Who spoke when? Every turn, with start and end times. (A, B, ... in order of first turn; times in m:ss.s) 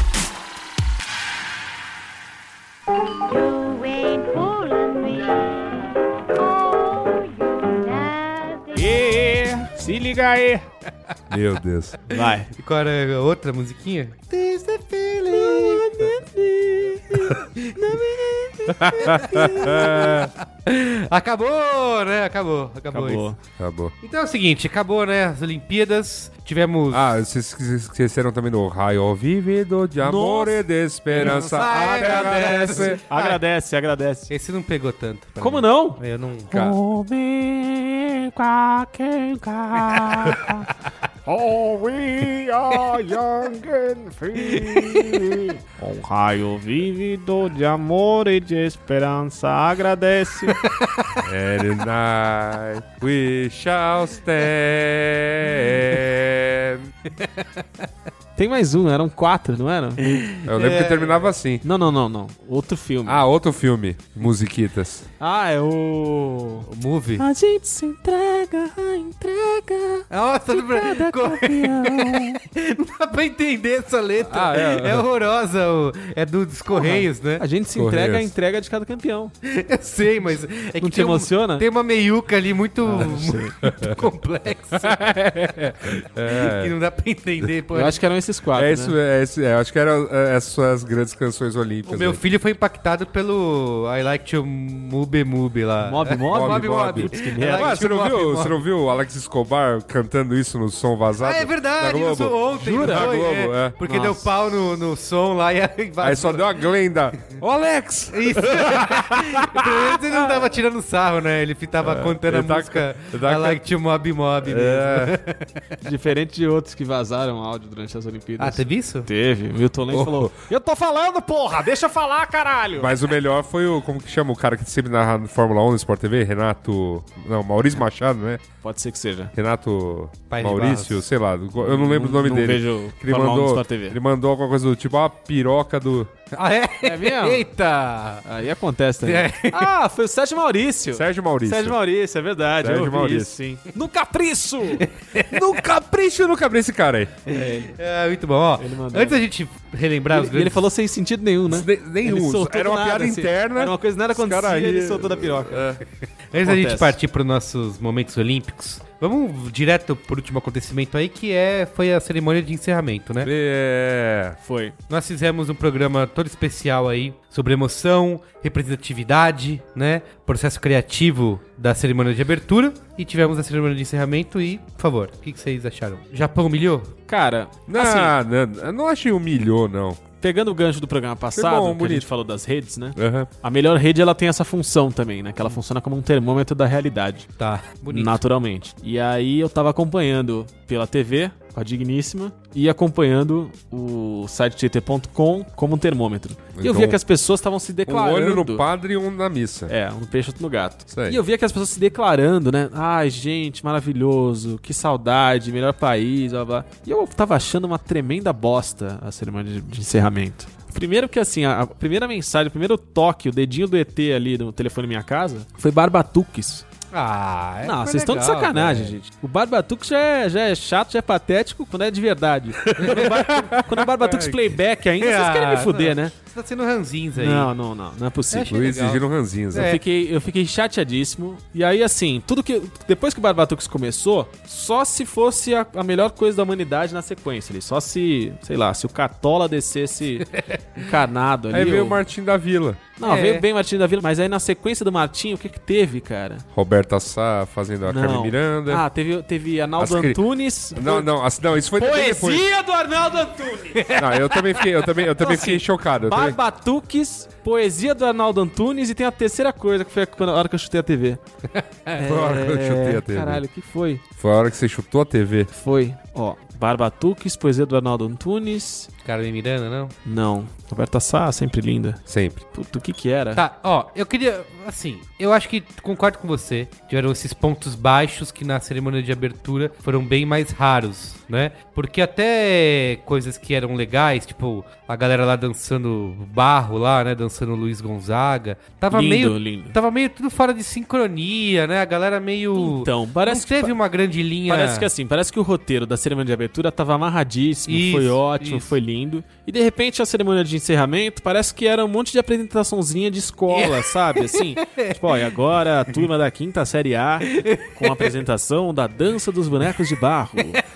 0:03.2-0:09.1 A
0:08.8-0:10.7 B
0:11.3-0:12.0 C
0:12.1-0:12.5 B
0:12.1-0:16.2 D
0:15.3-0:20.2 B
0:17.3-0:18.0 D
0:18.8-0:20.3 C
0:18.8-0:23.3 D
0:22.9-0:23.4 B
0:23.6-0:23.9 C
0:24.0-0:27.0 D
0:26.9-0:33.0 C
0:30.0-0:34.3 B
0:31.2-0:33.4 D
0:34.3-0:36.8 D
0:35.4-0:40.7 B
0:41.3-0:50.6 B
0:44.4-0:45.4 D
0:50.5-0:51.2 D
0:51.2-0:56.9 C
0:57.2-0:57.5 D
0:58.4-1:00.2 B
1:00.4-1:01.3 D
1:00.4-1:01.6 C
1:01.6-1:03.2 B
1:03.1-1:05.1 C
1:05.2-1:06.7 B
1:06.7-1:07.2 D
1:07.2-1:12.4 B
1:10.1-1:17.4 D
1:14.3-1:15.0 C
1:16.7-1:19.3 B
1:17.7-1:18.3 C
1:19.4-1:25.2 D
1:20.8-1:21.6 B
1:22.8-1:23.5 B
1:23.6-1:24.0 C
1:24.8-1:26.7 C
1:26.2-1:28.0 D
1:27.7-1:29.0 B
1:28.5-1:32.2 C
1:31.9-1:38.6 D
1:35.8-1:37.8 B
1:36.2-1:43.8 C
1:41.2-1:46.6 D
1:42.6-1:43.1 B
1:43.8-1:44.2 B
1:46.0-1:50.3 C
1:48.1-1:55.8 D
1:51.8-1:53.6 C
1:54.4-1:55.2 C
1:55.8-2:03.0 B
1:58.4-1:59.1 D
1:59.9-2:00.3 C
2:02.8-2:08.4 C
2:08.6-2:09.3 B
2:09.4-2:16.1 C
2:10.3-2:11.0 D
2:11.6-2:14.0 B
2:16.3-2:18.2 D
2:16.8-2:17.5 B
2:18.2-2:24.9 B
2:19.0-2:19.7 D
2:20.9-2:21.8 C
2:22.6-2:23.3 C
2:24.8-2:25.4 D
2:25.3-2:27.1 C
2:27.3-2:27.8 B
2:27.3-2:30.6 D
2:28.6-2:29.2 B
2:30.1-2:35.7 B
2:31.5-2:35.8 C
2:36.3-2:43.3 D
2:36.4-2:37.0 B
2:43.2-2:44.4 C
2:44.4-2:44.8 B
2:44.9-2:56.9 D
2:57.1-2:58.1 B
2:57.7-3:00.0 C
3:00.2-3:07.3 B
3:01.3-3:02.1 C
3:03.0-3:03.3 C
3:07.4-3:08.2 D
3:07.9-3:18.7 B
3:16.6-3:17.0 C
3:17.9-3:19.7 C
3:19.7-3:36.6 B
3:20.9-3:21.2 C
3:36.9-3:39.0 D
3:37.6-3:46.1 B
3:42.7-3:43.2 C
3:42.8-3:43.3 D
3:43.9-3:44.4 D
3:45.0-3:47.5 D
3:47.2-3:48.5 B
3:48.3-3:49.8 D
3:48.5-3:49.8 C
3:49.5-4:02.0 B
4:01.5-4:02.9 C
4:03.0-4:06.4 B
4:03.0-4:03.4 D
4:06.5-4:08.8 C
4:07.8-4:11.1 B
4:09.8-4:10.2 C
4:10.7-4:12.4 C
4:11.8-4:14.2 B
4:14.0-4:16.4 C
4:15.2-4:21.2 B
4:21.6-4:22.0 D
4:22.0-4:24.0 B
4:22.0-4:23.4 C
4:24.2-4:25.5 C
4:25.5-4:28.9 B
4:29.0-4:29.9 D
4:30.1-4:32.0 B
4:32.1-4:32.4 C
4:32.5-4:33.4 B
4:33.4-4:54.9 D
4:48.9-4:49.8 B
4:52.6-4:53.7 B
4:54.5-5:10.6 B
4:57.7-4:58.8 D
5:03.5-5:05.0 D
5:07.3-5:08.1 D